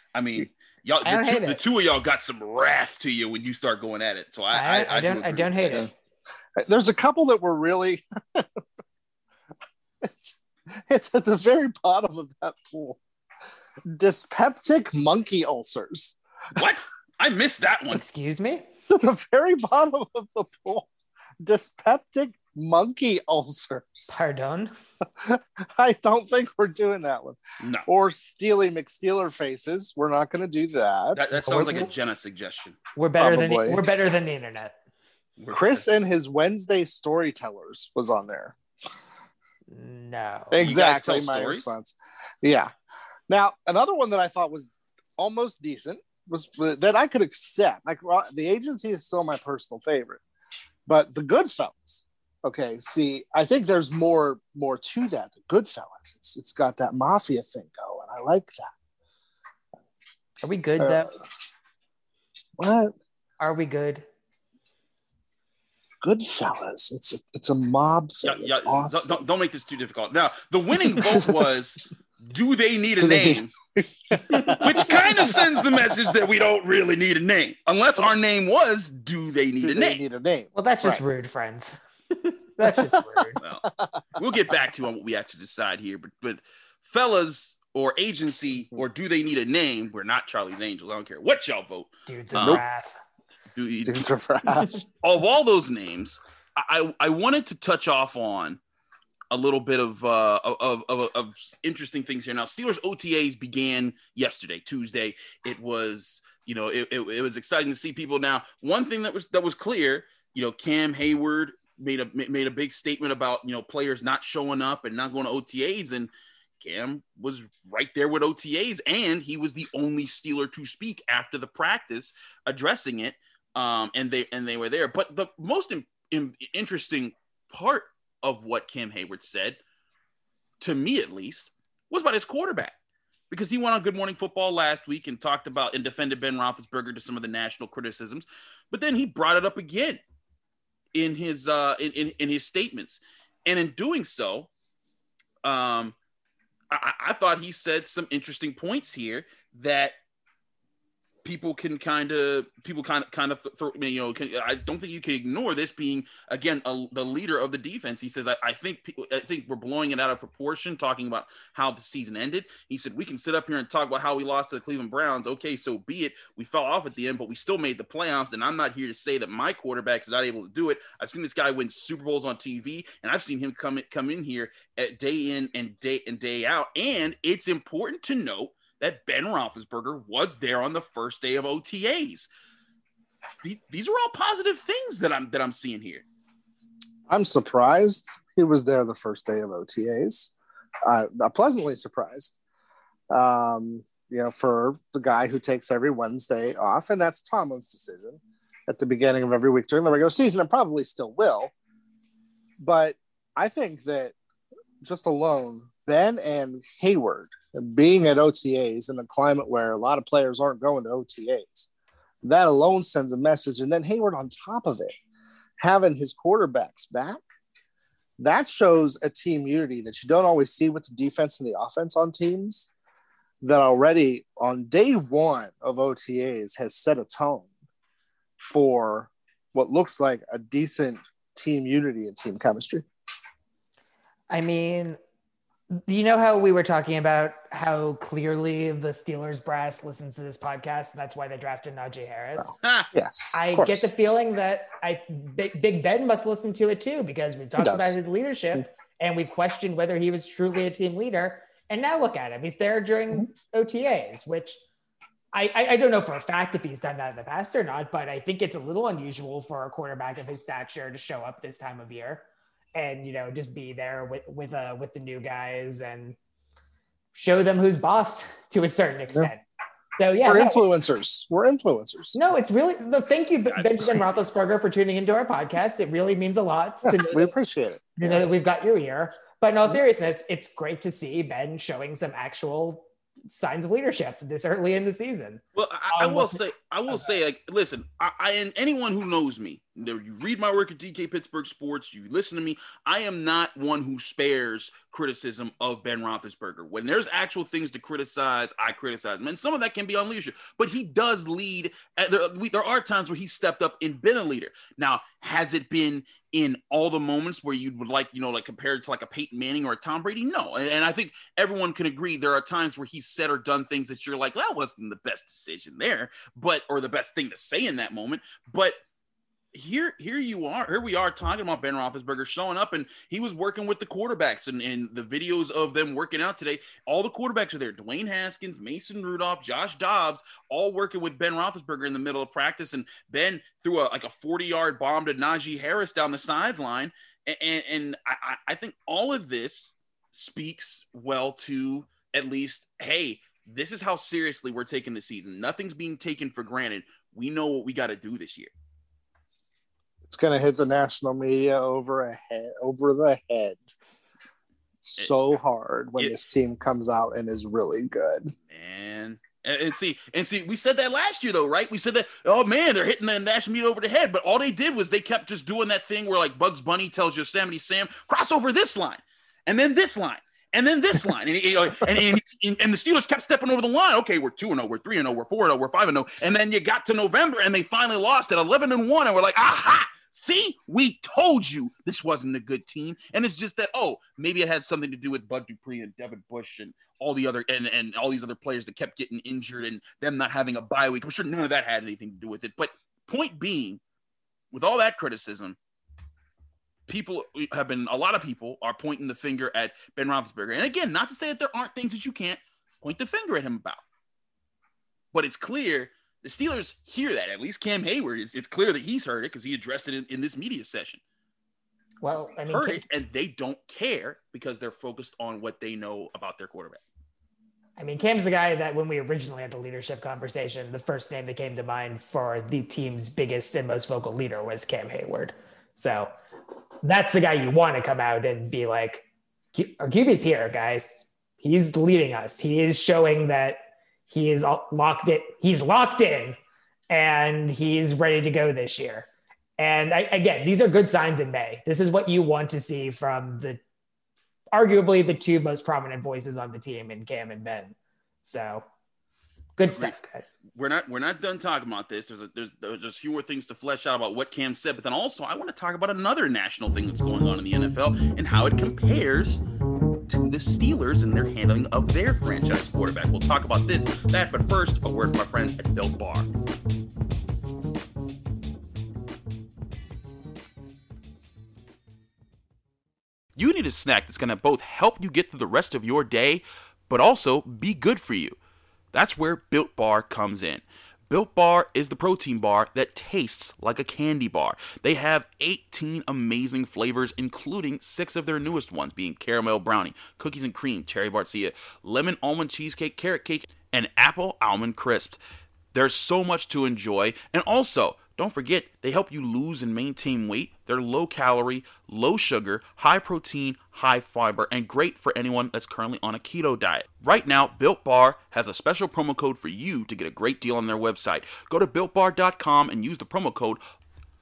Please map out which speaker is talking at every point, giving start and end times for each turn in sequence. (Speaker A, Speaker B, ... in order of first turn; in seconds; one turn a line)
Speaker A: 0.1-5.8
Speaker B: 1.1-1.6
Speaker B: 4.5-5.9
Speaker C: 6.6-8.5
Speaker C: 10.0-10.3
Speaker C: 10.9-13.0
Speaker C: 13.9-16.2
Speaker A: 16.6-18.0
Speaker B: 17.9-18.7
Speaker C: 18.9-20.9
Speaker C: 21.4-24.2
Speaker B: 24.1-24.7
Speaker C: 25.2-31.4
Speaker A: 27.6-27.9
Speaker A: 31.1-32.8
Speaker B: 31.5-31.9
Speaker B: 33.0-34.8
Speaker C: 33.2-33.8
Speaker A: 35.4-35.9
Speaker C: 35.5-38.6
Speaker B: 39.7-40.6
Speaker C: 40.5-42.7
Speaker A: 40.6-41.7
Speaker C: 43.3-50.2
Speaker C: 50.9-58.7
Speaker B: 60.4-61.1
Speaker C: 60.8-61.1
Speaker C: 62.6-63.0
Speaker B: 63.4-64.1
Speaker C: 66.0-69.1
Speaker A: 68.2-73.5
Speaker C: 73.0-75.9
Speaker B: 74.3-74.8
Speaker A: 74.6-80.0
Speaker C: 79.6-81.0
Speaker B: 80.5-83.4
Speaker C: 82.7-83.2
Speaker A: 83.4-92.6
Speaker B: 92.1-93.0
Speaker A: 93.5-94.1
Speaker C: 93.9-94.8
Speaker A: 95.0-98.6
Speaker A: 99.3-129.6
Speaker A: 130.6-132.8
Speaker A: 133.3-140.0
Speaker A: 140.9-144.5
Speaker A: 145.4-145.9
Speaker A: 146.7-149.9
Speaker A: 151.2-182.3
Speaker A: 183.4-186.0
Speaker C: 187.1-190.3
Speaker C: 190.9-192.4
Speaker C: 193.1-201.5
Speaker C: 202.6-204.1
Speaker C: 204.8-211.7
Speaker C: 212.2-214.9
Speaker C: 215.6-217.2
Speaker C: 218.2-222.7
Speaker C: 223.4-227.5
Speaker C: 228.4-232.8
Speaker B: 234.3-235.0
Speaker B: 235.7-242.6
Speaker C: 242.4-243.9
Speaker A: 242.6-242.9
Speaker B: 243.3-254.6
Speaker C: 247.6-248.0
Speaker B: 255.3-266.2
Speaker B: 267.1-269.4
Speaker B: 270.0-270.6
Speaker C: 270.3-272.2
Speaker B: 272.1-277.4
Speaker A: 273.5-274.0
Speaker C: 276.8-278.3
Speaker B: 278.0-286.4
Speaker A: 285.6-318.8
Speaker A: 319.5-348.5
Speaker C: 350.1-353.6
Speaker C: 354.8-358.3
Speaker A: 358.5-393.8
Speaker A: 394.5-395.6
Speaker A: 396.9-403.8
Speaker A: 405.1-411.0
Speaker B: 412.0-412.8
Speaker A: 412.5-416.8
Speaker B: 417.8-426.1
Speaker B: 426.8-436.4
Speaker B: 436.9-439.1
Speaker B: 439.6-443.6
Speaker B: 444.5-448.6
Speaker B: 449.6-450.4
Speaker A: 449.6-459.4
Speaker A: 460.1-466.3
Speaker A: 473.4-478.4
Speaker A: 478.9-495.2
Speaker A: 495.7-513.6